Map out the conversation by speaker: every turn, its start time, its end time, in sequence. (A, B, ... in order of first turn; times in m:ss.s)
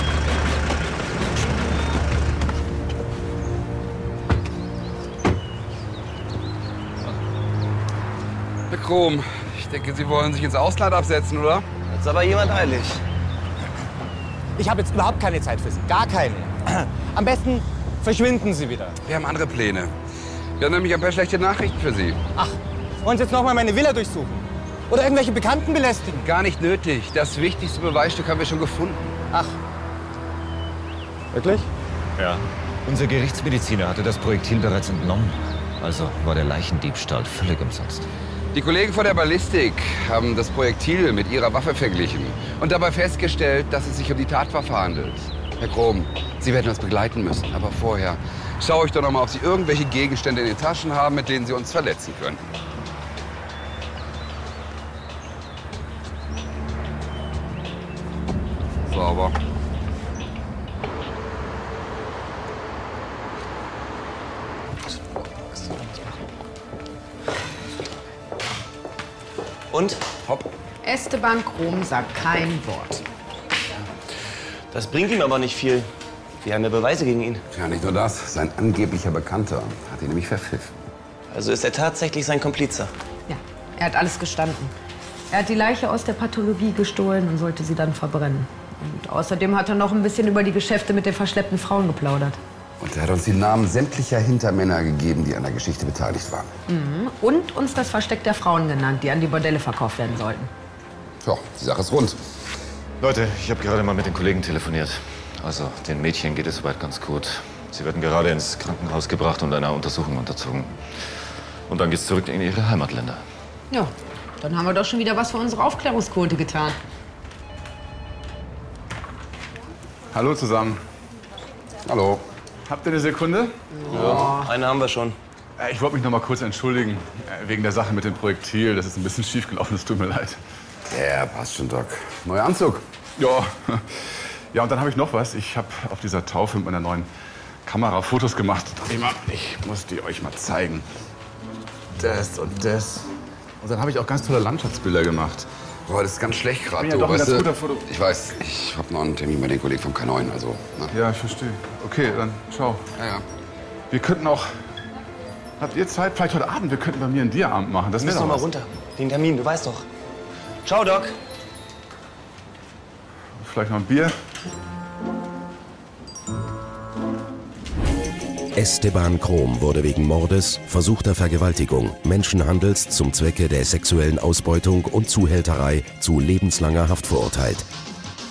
0:08.7-0:11.7 A
0:11.9-0:13.0 B
0:14.6-0:19.0 C
0:19.0-0:20.0 A
0:20.6-0:22.2 A
0:22.4-0:26.3 C
0:26.2-0:29.2 A
0:31.3-0:31.7 C
0:32.2-0:38.1 D
0:38.5-0:52.5 A
0:58.9-0:59.4 A
1:05.4-1:06.2 C
1:09.7-1:10.0 B
1:10.8-1:13.0 E
1:14.7-1:15.9 B
1:16.4-1:17.4 B
1:17.5-1:20.7 A
1:21.3-1:22.9 B
1:23.3-1:24.7 E
1:25.3-1:32.4 E
1:32.8-1:36.5 A
1:36.7-1:40.5 E
1:41.2-1:42.2 A
1:43.0-1:50.8 D
1:51.7-1:53.2 D
1:53.7-1:56.8 E
2:00.1-2:00.8 F
2:01.8-2:02.3 A
2:02.7-2:03.6 F
2:03.7-2:04.5 E
2:03.9-2:05.2 B
2:05.6-2:10.4 F
2:10.9-2:12.8 A
2:13.2-2:17.1 F
2:17.6-2:20.8 F
2:22.0-2:23.1 F
2:23.6-2:25.5 F
2:25.9-2:31.0 A
2:26.8-2:27.9 F
2:30.9-2:32.9 F
2:33.0-2:33.2 A
2:33.9-2:34.5 F
2:35.6-2:38.4 F
2:38.0-2:39.9 B
2:40.6-2:41.2 B
2:43.4-2:44.1 F
2:48.6-2:57.7 G